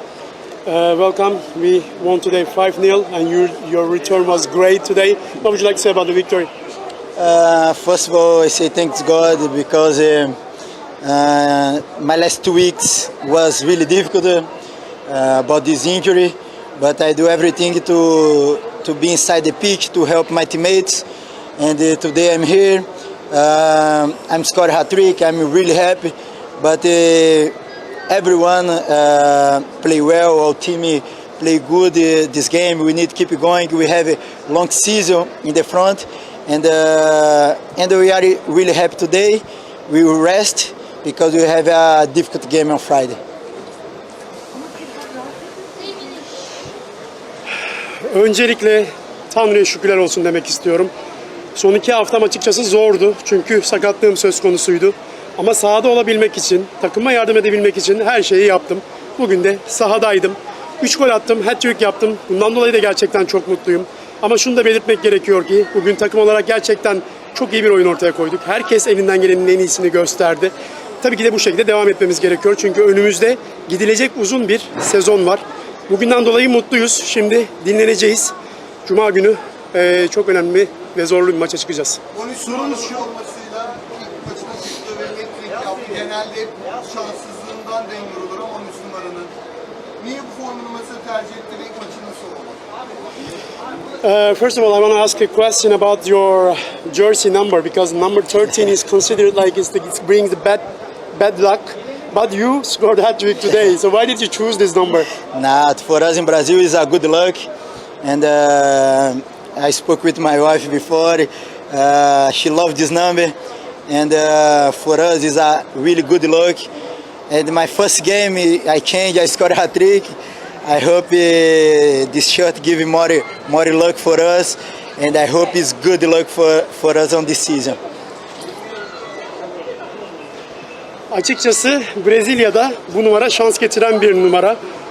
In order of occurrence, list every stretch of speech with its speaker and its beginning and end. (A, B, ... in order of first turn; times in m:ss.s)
0:00.6-0:06.5 A
0:07.2-0:10.3 B
0:11.0-0:14.5 B
0:15.1-0:21.0 B
0:21.6-0:27.5 B
0:28.1-0:43.2 B
0:48.1-0:50.9 A
0:51.5-1:18.3 A
1:18.8-1:22.0 A
1:22.1-1:29.3 C
1:30.0-1:32.6 C
1:34.0-1:45.1 A
1:45.3-1:47.4 B
1:48.0-1:53.3 B
1:53.9-1:56.7 B
1:57.3-2:07.8 B
2:11.1-2:14.6 A